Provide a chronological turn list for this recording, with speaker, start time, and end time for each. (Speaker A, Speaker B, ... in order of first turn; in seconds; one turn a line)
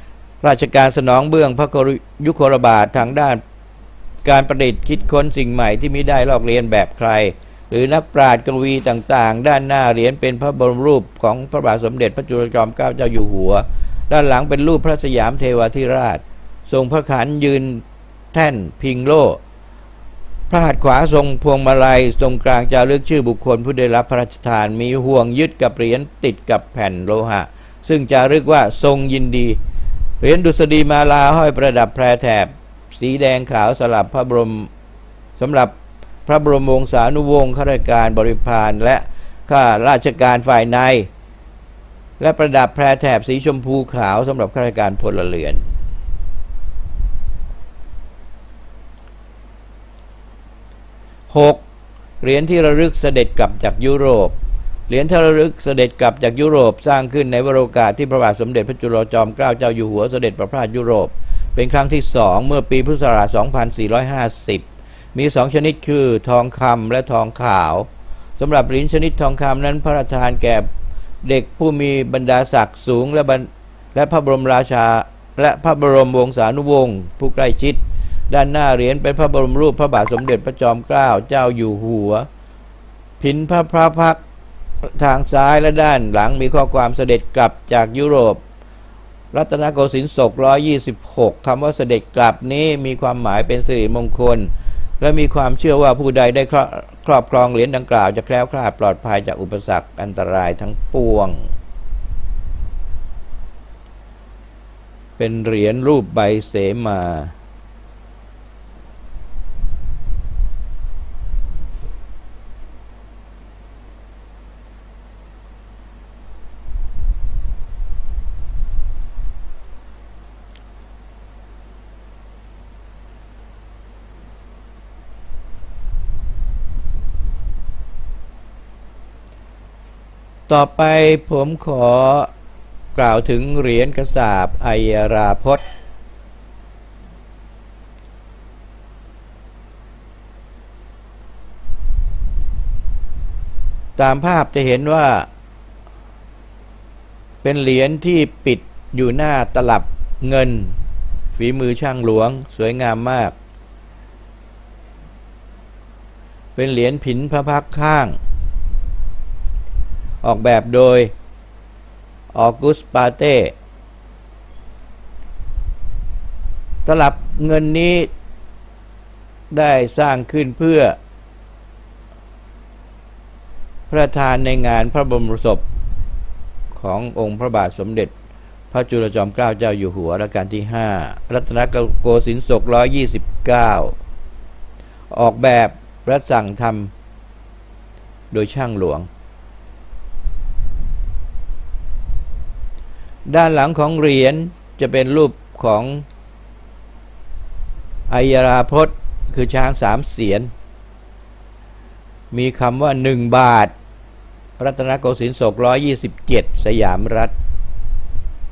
Speaker A: 0.4-3.4
Speaker A: 4.2-19.4
Speaker A: 20.5-29.6
Speaker A: 30.2-34.7
Speaker A: 35.4-41.1
Speaker A: 42.2-45.7
Speaker A: 51.3-51.6
Speaker A: 52.2-54.4
Speaker A: 54.9-70.7
Speaker A: 71.2-82.3
Speaker A: 83.2-84.2
Speaker A: 84.8-88.4
Speaker A: 89.3-101.5
Speaker A: 105.2-107.3
Speaker A: 130.5-132.3
Speaker A: 132.9-135.6
Speaker A: 144.0-145.3
Speaker A: 147.4-150.8
Speaker A: 151.4-153.4
Speaker A: 156.6-158.2
Speaker A: 160.2-161.1
Speaker A: 162.3-163.6
Speaker A: 166.8-168.1
Speaker A: 169.5-171.0
Speaker A: 173.9-175.7
Speaker A: 176.7-178.1
Speaker A: 178.7-184.0
Speaker A: 185.1-186.9
Speaker A: 188.3-189.1
Speaker A: 193.3-196.1
Speaker A: 198.1-200.5
Speaker A: 202.3-203.7
Speaker A: 204.6-207.3